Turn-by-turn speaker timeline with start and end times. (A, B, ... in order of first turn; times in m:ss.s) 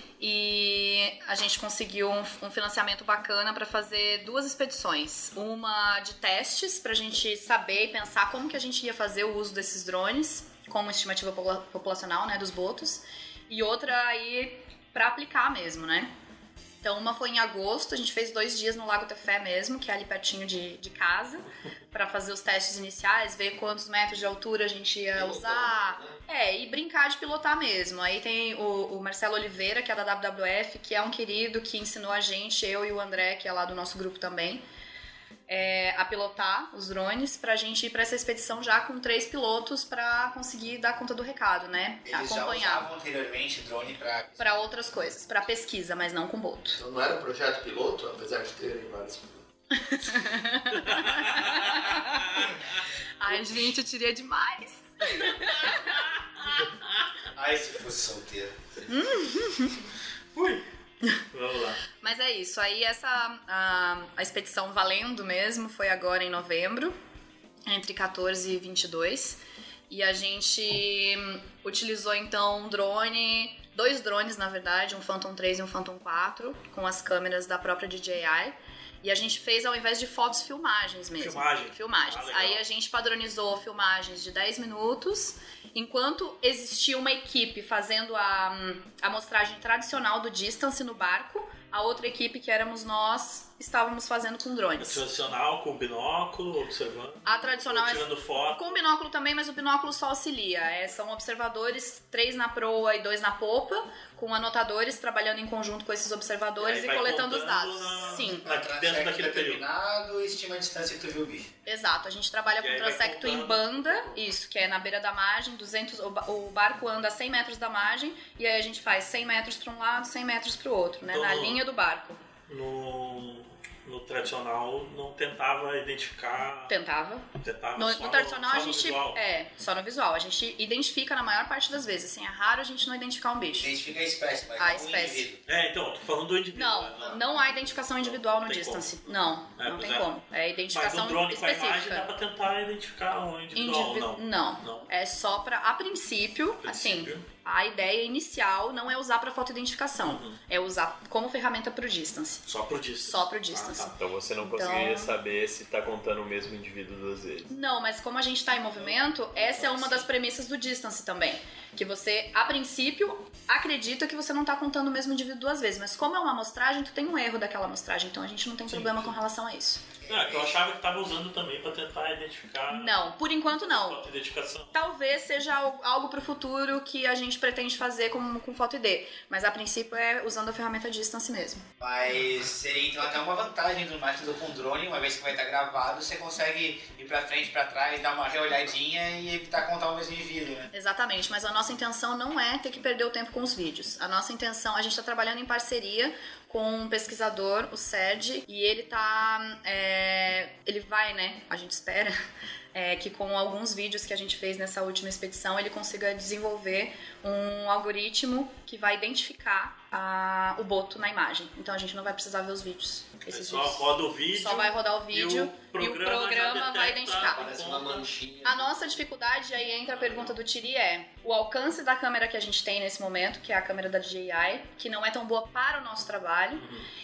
0:00.2-0:16.1 A
0:16.8-0:34.6 A
0:25.1-0:26.2 B
0:35.5-0:42.8 A
0:42.0-0:44.7 C
0:44.4-0:46.8 A
0:46.8-0:49.4 B
0:49.7-0:52.6 A
0:51.0-0:51.8 D
0:53.2-0:56.0 A
0:55.4-0:56.0 D
0:57.3-0:58.5 C
0:58.9-0:59.8 A
1:00.3-1:00.6 D
1:01.3-1:01.8 D
1:02.0-1:06.9 A
1:07.7-1:35.0 A
1:21.2-1:22.6 D
1:34.8-1:38.8 D
1:37.2-1:48.4 A
1:46.6-1:49.6 D
1:48.2-1:51.5 C
1:51.6-2:02.2 A
1:52.6-1:54.2 D
2:01.1-2:01.6 D
2:02.5-2:06.7 D
2:06.7-2:13.7 A
2:07.3-2:09.2 D
2:13.6-2:15.4 C
2:14.6-2:15.2 A
2:15.4-2:17.2 D
2:16.5-2:22.1 A
2:18.0-2:20.1 D
2:20.7-2:24.9 D
2:23.5-2:32.4 A
2:26.6-2:27.2 D
2:30.0-2:30.4 D
2:32.4-2:33.9 D
2:33.0-2:35.1 A
2:33.9-2:37.5 E
2:37.5-2:49.8 A
2:38.8-2:40.0 D
2:48.7-2:49.2 D
2:50.0-2:50.5 C
2:50.1-2:54.7 D
2:52.7-2:54.0 A
2:54.7-3:01.6 A
3:01.8-3:10.7 C
3:10.7-3:22.2 A
3:22.7-3:37.4 A
3:33.3-3:38.1 D
3:37.3-3:38.7 B
3:38.4-3:46.6 A
3:39.9-3:40.3 D
3:46.6-3:46.9 D